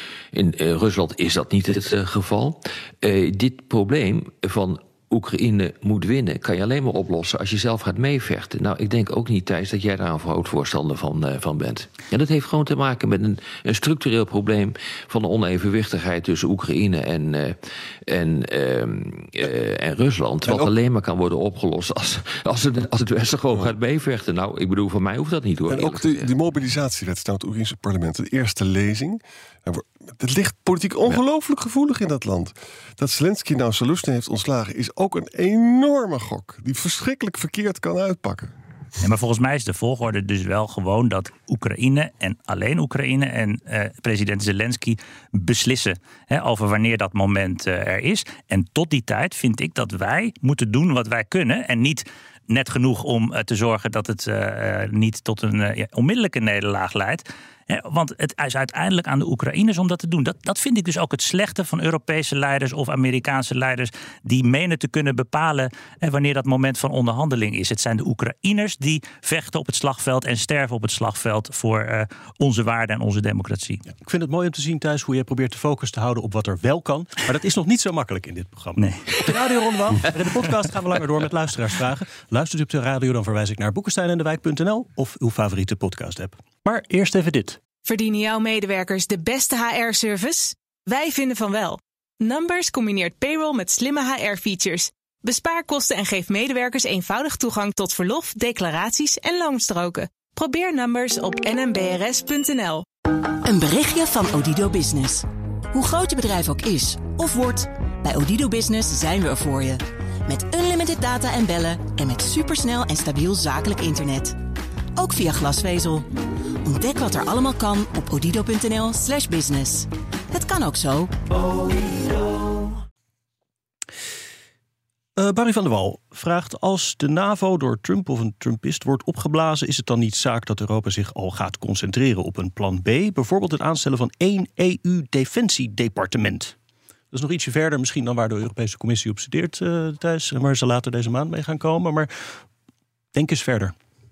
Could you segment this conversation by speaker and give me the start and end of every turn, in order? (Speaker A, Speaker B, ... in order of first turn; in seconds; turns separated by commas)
Speaker A: 0.3-26.3, Speaker B: 20.4-20.7, Speaker B: 25.7-38.5, Speaker C: 39.0-73.8, Speaker D: 74.0-87.6, Speaker C: 78.8-79.3, Speaker E: 87.8-102.8, Speaker F: 103.4-114.4, Speaker F: 115.0-116.1, Speaker F: 116.6-122.7, Speaker D: 125.2-136.6, Speaker D: 137.1-142.1, Speaker D: 143.1-143.7